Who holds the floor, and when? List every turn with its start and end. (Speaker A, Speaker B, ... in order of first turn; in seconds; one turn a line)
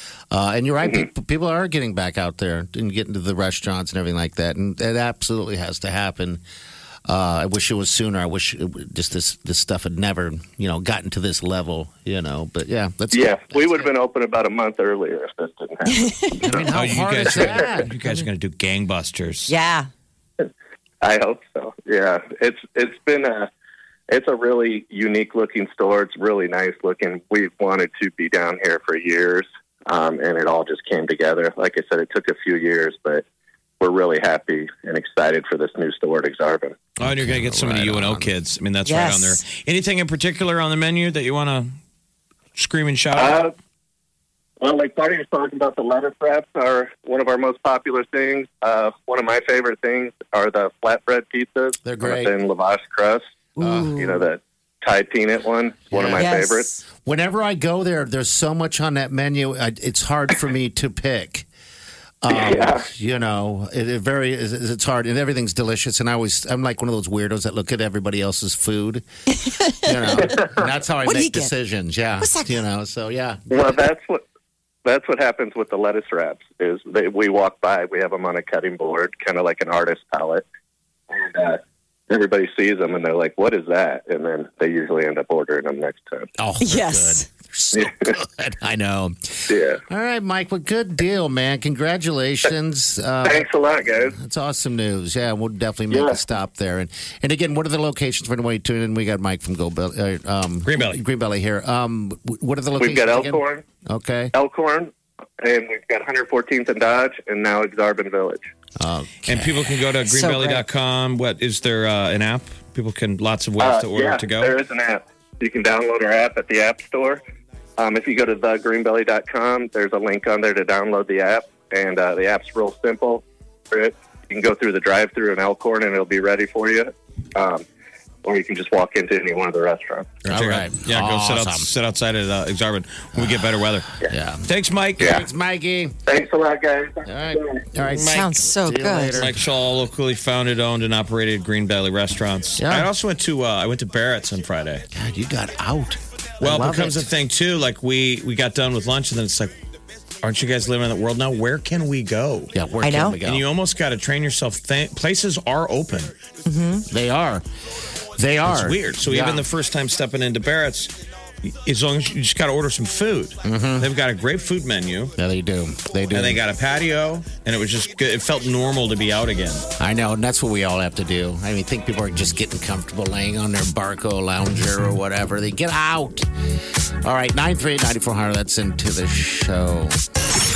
Speaker A: 0.3-6.4
Speaker A: 7.0-13.9
Speaker B: 13.1-16.7
Speaker C: 15.9-16.5
Speaker A: 16.4-17.9
Speaker D: 16.6-19.5
Speaker B: 17.2-17.5
Speaker C: 19.5-19.9
Speaker B: 21.0-23.5
Speaker B: 24.1-33.2
Speaker B: 33.8-36.9
Speaker A: 37.0-38.3
Speaker D: 37.0-41.7
Speaker C: 38.8-39.4
Speaker D: 42.5-43.4
Speaker B: 43.1-43.5
Speaker B: 44.6-53.2
Speaker A: 51.8-52.3
Speaker C: 53.5-54.2
Speaker A: 53.6-54.0
Speaker B: 53.9-56.7
Speaker A: 55.9-56.3
Speaker C: 56.1-56.8
Speaker A: 57.0-61.5
Speaker A: 62.2-69.0
Speaker B: 62.3-62.8
Speaker C: 69.3-70.3
Speaker A: 69.8-73.8
Speaker B: 70.1-70.5
Speaker C: 71.0-71.5
Speaker C: 72.2-72.6
Speaker B: 73.5-74.2
Speaker B: 74.8-80.4
Speaker B: 81.1-86.3
Speaker A: 86.4-93.4
Speaker C: 86.6-87.3
Speaker B: 87.7-88.0
Speaker B: 89.5-89.8
Speaker B: 93.2-94.1
Speaker A: 94.1-104.3
Speaker B: 95.9-96.2
Speaker D: 100.6-101.0
Speaker B: 102.8-103.6
Speaker B: 104.3-108.5
Speaker A: 108.8-109.7
Speaker D: 109.2-114.5
Speaker C: 110.1-110.6
Speaker B: 113.6-117.2
Speaker B: 117.8-127.6
Speaker B: 128.2-130.2
Speaker D: 130.2-135.2
Speaker A: 130.3-131.7
Speaker A: 133.2-134.4
Speaker A: 135.0-136.0
Speaker B: 136.1-137.6
Speaker A: 137.1-139.4
Speaker C: 138.0-139.2
Speaker D: 139.1-144.8
Speaker A: 142.6-142.9
Speaker A: 144.9-147.1
Speaker D: 146.4-149.6
Speaker C: 146.4-146.9
Speaker D: 150.2-152.5
Speaker A: 152.5-153.5
Speaker C: 152.8-153.2
Speaker D: 153.2-156.1
Speaker C: 156.4-156.8
Speaker A: 156.9-157.4
Speaker A: 158.2-159.4
Speaker D: 158.4-160.9
Speaker D: 161.5-165.1
Speaker A: 163.4-163.9
Speaker A: 165.2-166.4
Speaker D: 166.1-169.7
Speaker A: 169.8-176.3
Speaker A: 177.0-180.0